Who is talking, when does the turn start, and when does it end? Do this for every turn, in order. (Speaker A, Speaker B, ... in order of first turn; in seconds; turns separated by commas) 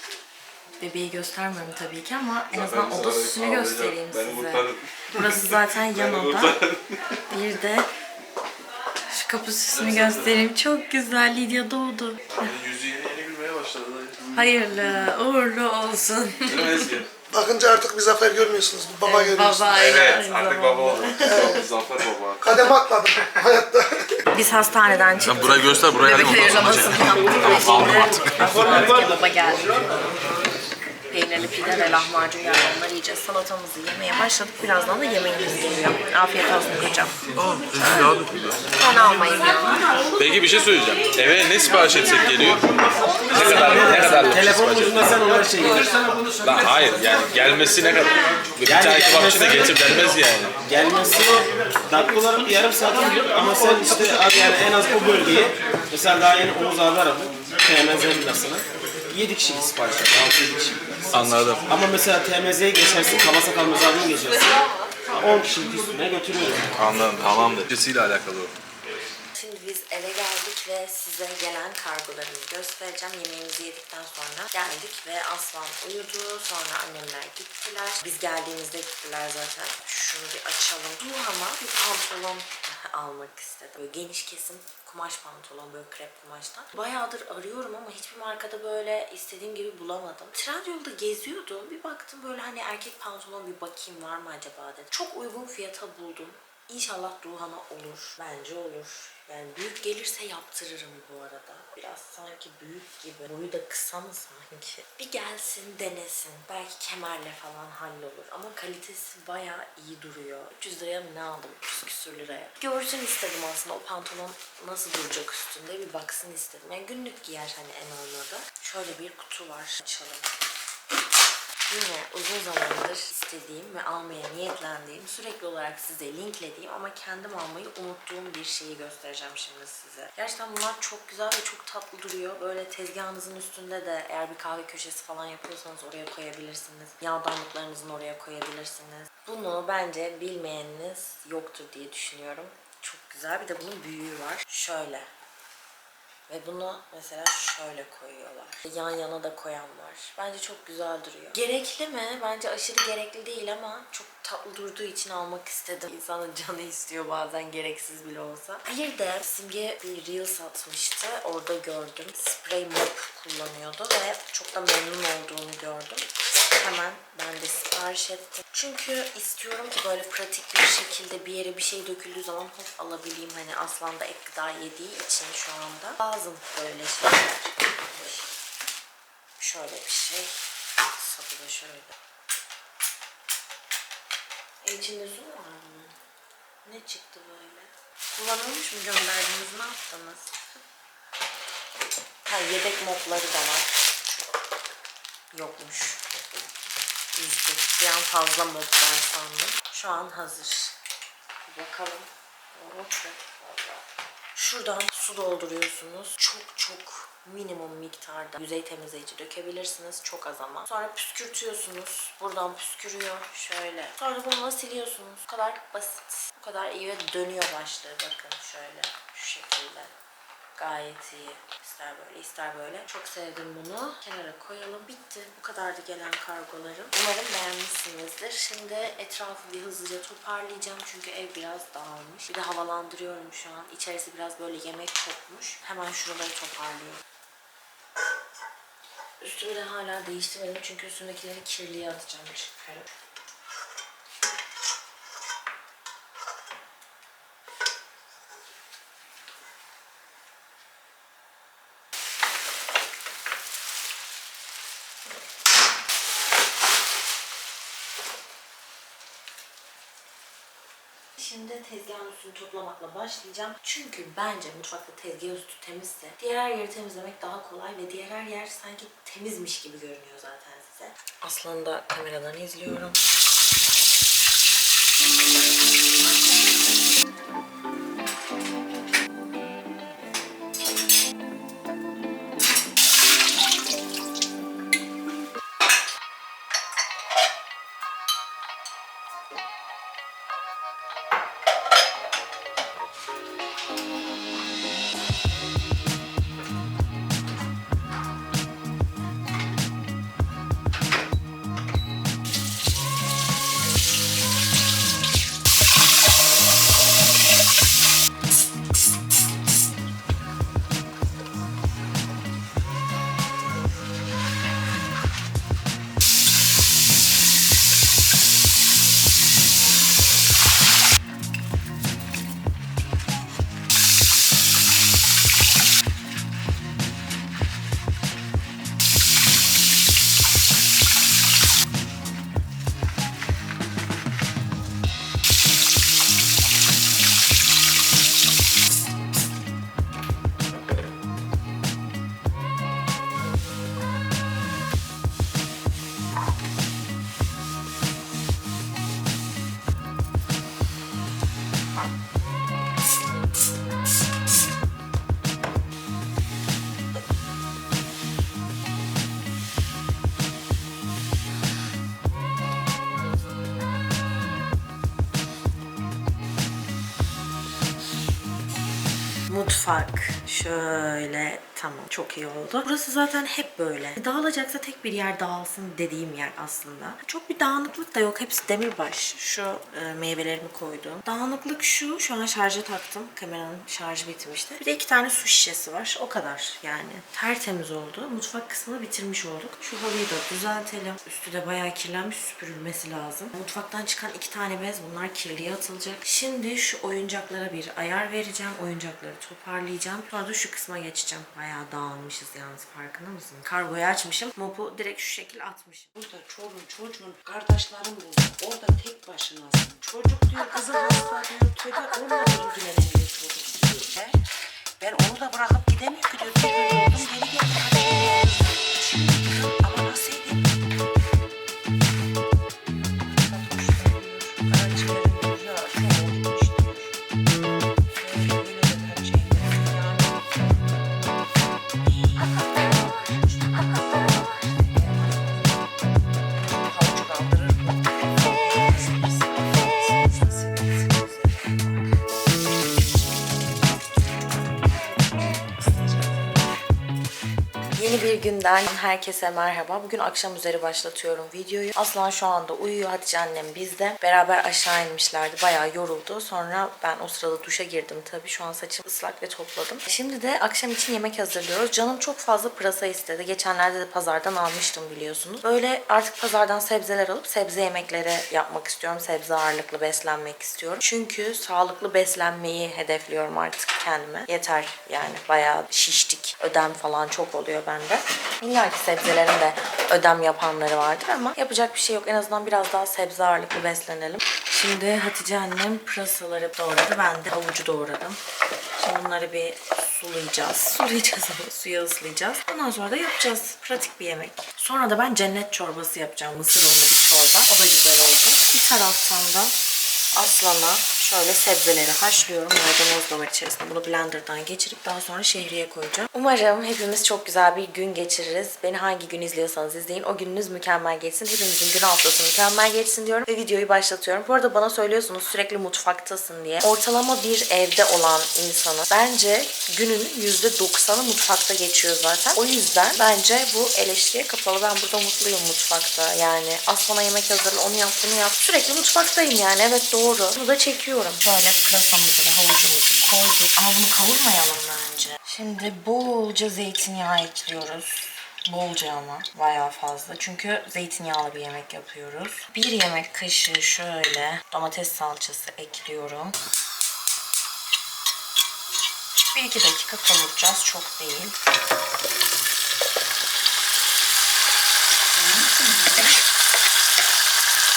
Speaker A: 0.8-6.6, Speaker B: 2.5-6.8, Speaker A: 7.3-7.9, Speaker A: 9.1-12.5, Speaker B: 9.7-10.4, Speaker B: 12.4-14.5, Speaker A: 14.3-16.6, Speaker B: 16.5-17.1, Speaker C: 17.3-19.9, Speaker A: 19.0-21.6, Speaker B: 19.7-22.4, Speaker C: 21.2-21.6, Speaker C: 22.4-24.1, Speaker A: 24.3-29.7, Speaker B: 25.2-28.5, Speaker D: 28.4-29.2, Speaker A: 31.1-37.2, Speaker B: 37.4-38.6, Speaker A: 38.8-39.8, Speaker B: 40.2-42.6, Speaker D: 43.3-46.0, Speaker B: 43.3-45.1, Speaker B: 46.4-50.6, Speaker D: 48.6-60.9, Speaker B: 61.1-61.7, Speaker D: 61.7-64.5, Speaker D: 65.1-66.9, Speaker B: 66.8-68.5, Speaker A: 69.4-120.3, Speaker A: 121.7-145.1, Speaker A: 146.3-178.3, Speaker A: 179.4-180.4, Speaker A: 180.9-181.9, Speaker A: 184.6-185.9, Speaker A: 186.7-190.6, Speaker A: 192.3-194.4, Speaker A: 195.3-196.0, Speaker A: 197.1-200.8, Speaker A: 201.5-219.9, Speaker A: 220.6-237.0, Speaker A: 239.2-242.9, Speaker A: 261.2-273.0, Speaker A: 369.3-406.2, Speaker E: 406.1-408.3, Speaker A: 407.1-414.2, Speaker A: 414.8-420.4, Speaker A: 423.1-426.9, Speaker A: 428.0-430.2, Speaker A: 431.8-433.3, Speaker A: 434.2-435.6, Speaker A: 436.3-441.9, Speaker A: 444.6-446.5, Speaker A: 447.8-488.2, Speaker A: 488.8-499.6, Speaker A: 500.1-546.4, Speaker A: 549.3-551.4, Speaker E: 555.1-556.2